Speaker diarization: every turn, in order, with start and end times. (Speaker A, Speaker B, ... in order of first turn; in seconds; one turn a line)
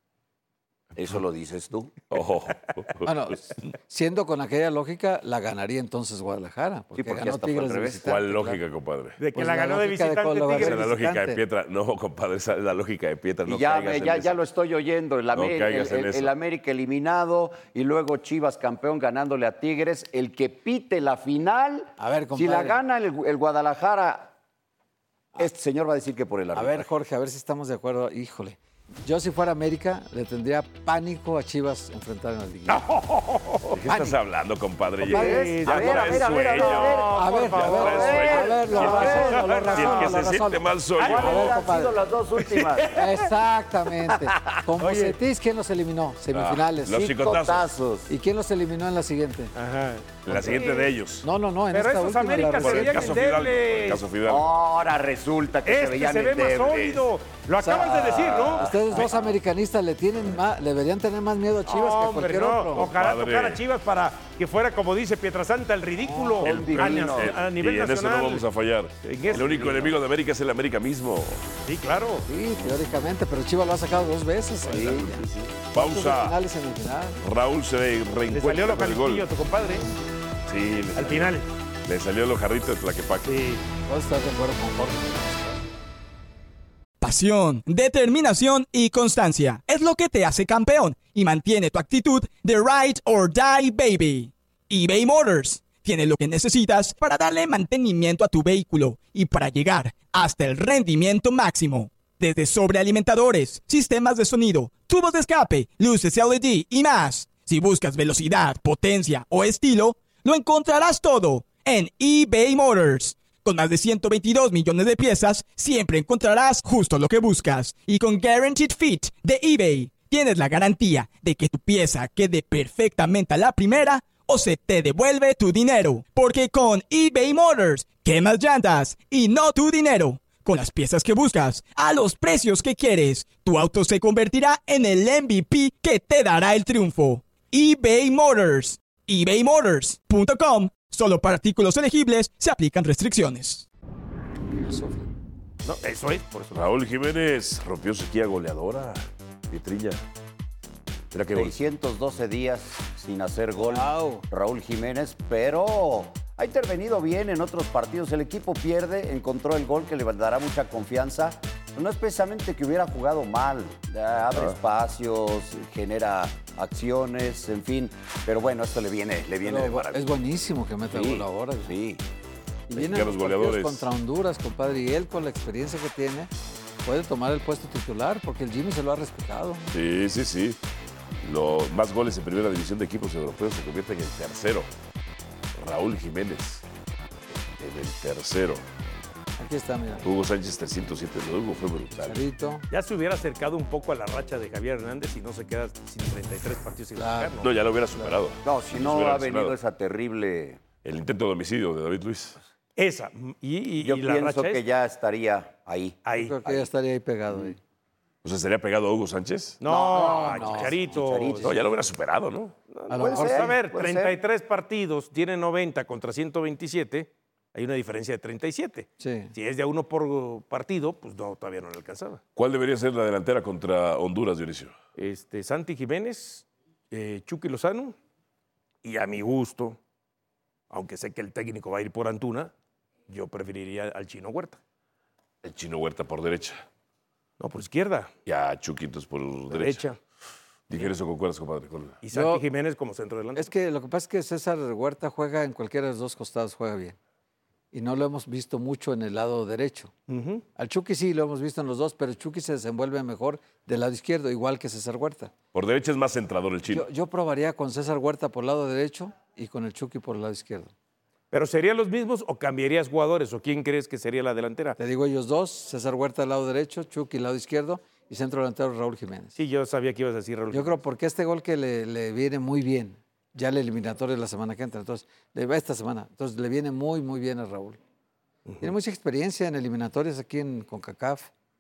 Speaker A: 0.9-2.0
Speaker B: 2.1-3.1
Speaker C: 3.0-8.6
Speaker A: 7.0-8.0
Speaker B: 8.0-9.2
Speaker D: 9.2-10.8
Speaker C: 9.3-11.4
Speaker B: 10.5-14.4
Speaker A: 13.4-24.3
Speaker B: 15.3-16.3
Speaker C: 22.0-22.8
Speaker A: 25.4-26.9
Speaker C: 26.5-32.8
Speaker D: 32.7-33.8
Speaker B: 33.7-41.5
Speaker C: 33.8-34.1
Speaker C: 35.0-35.5
Speaker A: 35.0-40.0
Speaker D: 35.2-40.2
Speaker C: 37.1-42.0
Speaker D: 41.0-41.5
Speaker A: 41.0-43.0
Speaker D: 42.4-43.2
Speaker C: 42.9-47.2
Speaker B: 46.3-47.7
Speaker A: 47.0-48.1
Speaker C: 48.1-49.5
Speaker D: 49.5-50.9
Speaker B: 50.2-51.3
Speaker C: 50.3-50.6
Speaker C: 51.2-53.2
Speaker D: 51.7-54.0
Speaker B: 52.6-54.5
Speaker A: 54.2-57.0
Speaker D: 55.6-59.1
Speaker C: 57.6-62.9
Speaker A: 58.1-59.3
Speaker D: 61.7-68.4
Speaker B: 62.7-63.6
Speaker C: 66.0-66.5
Speaker A: 66.4-67.3
Speaker B: 66.4-71.6
Speaker D: 69.0-69.9
Speaker D: 71.6-72.2
Speaker C: 72.3-77.2
Speaker A: 74.7-75.5
Speaker B: 75.7-76.4
Speaker B: 77.2-79.2
Speaker D: 78.3-79.9
Speaker B: 80.5-83.3
Speaker D: 81.0-81.5
Speaker D: 83.2-83.6
Speaker C: 83.9-85.7
Speaker E: 87.0-143.7
Speaker C: 144.5-145.1
Speaker D: 145.6-146.7
Speaker B: 146.5-150.0
Speaker B: 151.1-151.5
Speaker A: 151.3-170.1
Speaker C: 153.6-154.2
Speaker C: 169.4-171.7
Speaker A: 170.9-172.0
Speaker C: 172.7-176.3
Speaker B: 172.7-173.9
Speaker C: 176.8-179.7
Speaker B: 179.7-180.6
Speaker B: 181.2-184.7
Speaker B: 185.6-186.6
Speaker B: 187.6-188.7
Speaker C: 189.4-190.1
Speaker B: 190.0-192.2
Speaker C: 192.0-192.6
Speaker D: 192.7-197.5
Speaker C: 196.9-197.4
Speaker B: 197.4-199.6
Speaker A: 198.4-200.6
Speaker B: 200.8-202.4
Speaker D: 202.8-204.6
Speaker A: 203.8-206.7
Speaker D: 206.0-206.4
Speaker C: 206.2-207.6
Speaker B: 208.2-209.6
Speaker D: 209.6-211.5
Speaker A: 209.6-211.8
Speaker C: 209.9-210.8
Speaker B: 211.4-212.5
Speaker D: 212.7-222.2
Speaker C: 212.9-213.6
Speaker A: 213.0-214.1
Speaker C: 219.0-219.3
Speaker B: 222.3-224.7
Speaker D: 224.9-227.9
Speaker D: 228.8-229.8
Speaker D: 230.7-232.5
Speaker D: 233.1-234.6
Speaker B: 235.4-236.6
Speaker D: 237.4-238.1
Speaker B: 238.2-239.8
Speaker D: 239.5-240.0
Speaker B: 240.7-242.0
Speaker D: 242.0-243.5
Speaker C: 242.1-242.4
Speaker C: 243.3-247.0
Speaker C: 247.7-249.9
Speaker D: 250.1-250.4
Speaker C: 250.6-255.3
Speaker B: 255.5-256.9
Speaker C: 256.7-260.7
Speaker D: 261.3-264.8
Speaker C: 264.8-269.4
Speaker D: 269.3-270.8
Speaker C: 270.5-277.8
Speaker C: 278.6-281.3